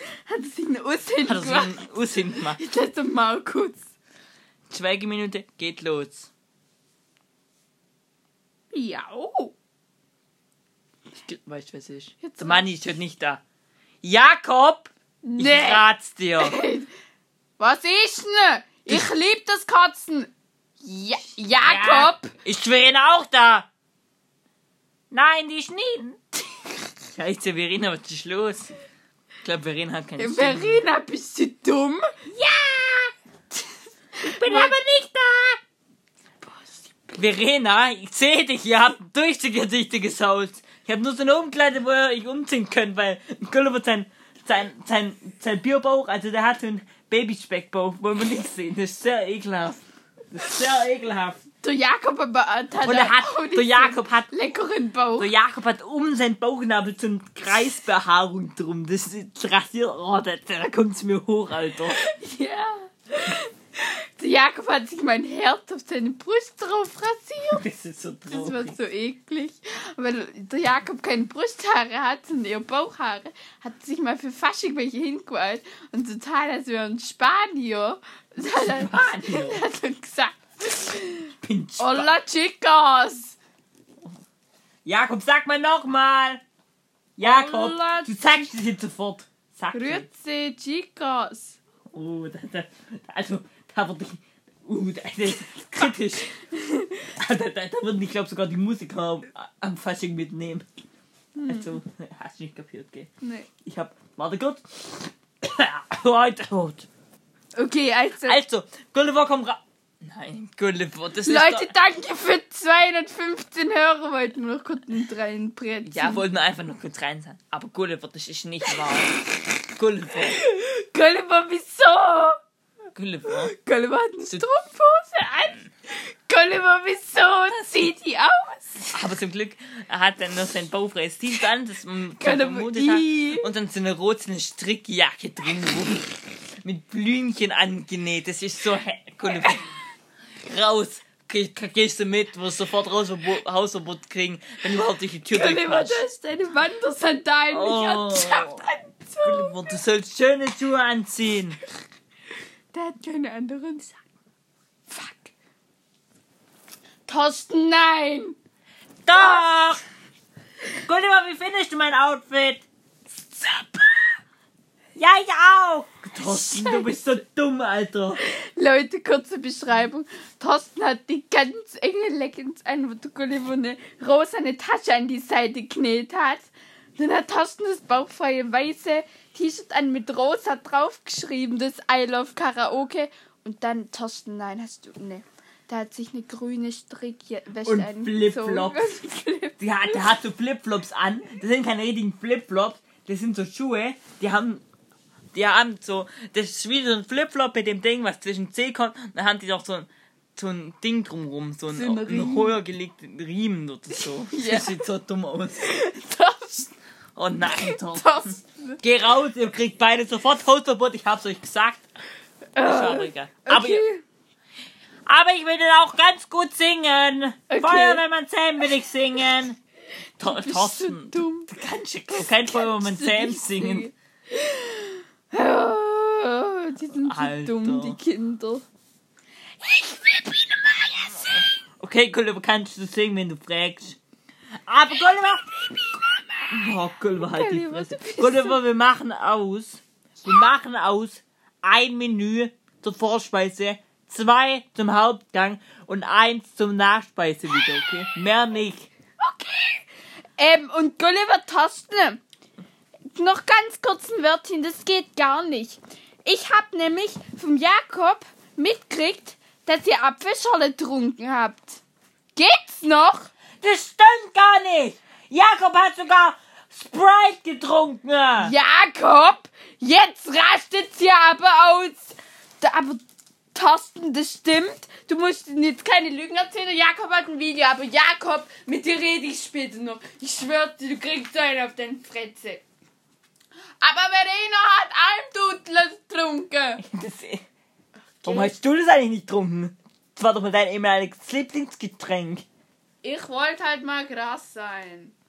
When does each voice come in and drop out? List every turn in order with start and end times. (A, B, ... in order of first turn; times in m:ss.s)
0:00.2-0:03.9 A
0:01.2-0:02.6 B
0:04.7-0:06.3 B
0:08.7-0:09.5 A
0:11.2-0:13.4 B
0:12.2-0:12.7 A
0:14.0-0:16.7 B
0:15.2-0:15.8 A
0:16.4-0:16.9 A
0:17.6-0:22.3 A
0:21.6-0:23.7 B
0:25.1-0:26.2 B
0:27.1-0:28.7 B
0:29.4-0:30.8 B
0:30.2-0:32.2 A
0:32.3-0:33.1 B
0:34.2-0:35.6 B
0:34.2-0:34.8 A
0:36.4-0:36.9 A
0:37.1-0:51.4 B
0:51.6-0:55.3 A
0:52.8-0:54.3 B
0:55.2-1:02.0 B
1:01.9-1:07.6 A
1:07.5-1:08.8 B
1:08.3-1:23.4 A
1:18.5-1:19.6 B
1:21.4-1:22.1 B
1:24.8-1:26.4 B
1:27.2-1:30.0 B
1:27.2-1:28.5 A
1:29.7-1:31.6 A
1:31.9-1:36.4 B
1:36.5-1:37.0 A
1:37.2-1:40.6 B
1:41.3-1:41.8 A
1:41.4-1:43.1 B
1:43.2-1:43.5 A
1:43.6-1:46.9 B
1:47.5-1:48.4 A
1:48.2-1:51.7 B
1:51.2-1:56.2 A
1:55.8-2:00.4 B
2:00.3-2:02.4 A
2:02.9-2:03.5 B
2:03.2-2:08.9 A
2:08.9-2:19.7 B
2:12.2-2:13.5 A
2:20.4-2:26.0 B
2:25.3-2:29.7 A
2:27.5-2:28.6 B
2:29.2-2:31.6 B
2:32.7-2:34.0 A
2:34.9-2:35.3 A
2:37.0-2:38.4 A
2:39.0-2:39.8 B
2:40.8-2:42.6 B
2:43.1-2:44.1 A
2:45.0-2:48.2 B
2:46.2-2:46.9 A
2:48.2-3:10.1 A
3:07.6-3:09.0 B
3:09.6-3:14.6 B
3:15.3-3:25.7 B
3:21.7-3:22.6 A
3:23.9-3:24.8 A
3:25.6-3:26.7 A
3:27.2-3:31.8 B
3:27.5-3:28.8 A
3:32.5-3:34.0 A
3:32.6-3:33.8 B
3:35.1-3:39.6 B
3:37.5-3:38.0 A
3:40.2-3:43.9 B
3:40.2-3:41.5 A
3:42.1-3:48.6 A
3:47.0-3:48.0 B
3:49.6-3:51.5 A
3:51.8-3:54.0 B
3:54.7-3:55.4 B
3:55.4-3:58.6 A
3:56.5-4:08.9 B
4:09.2-4:12.2 A
4:13.1-4:21.8 A
4:22.3-4:23.3 A
4:23.6-4:28.5 B
4:28.4-4:33.0 A
4:33.5-4:42.6 A
4:43.8-4:46.8 A
4:46.8-4:47.4 B
4:48.2-4:48.5 A
4:48.2-4:52.4 B
4:53.0-4:55.1 A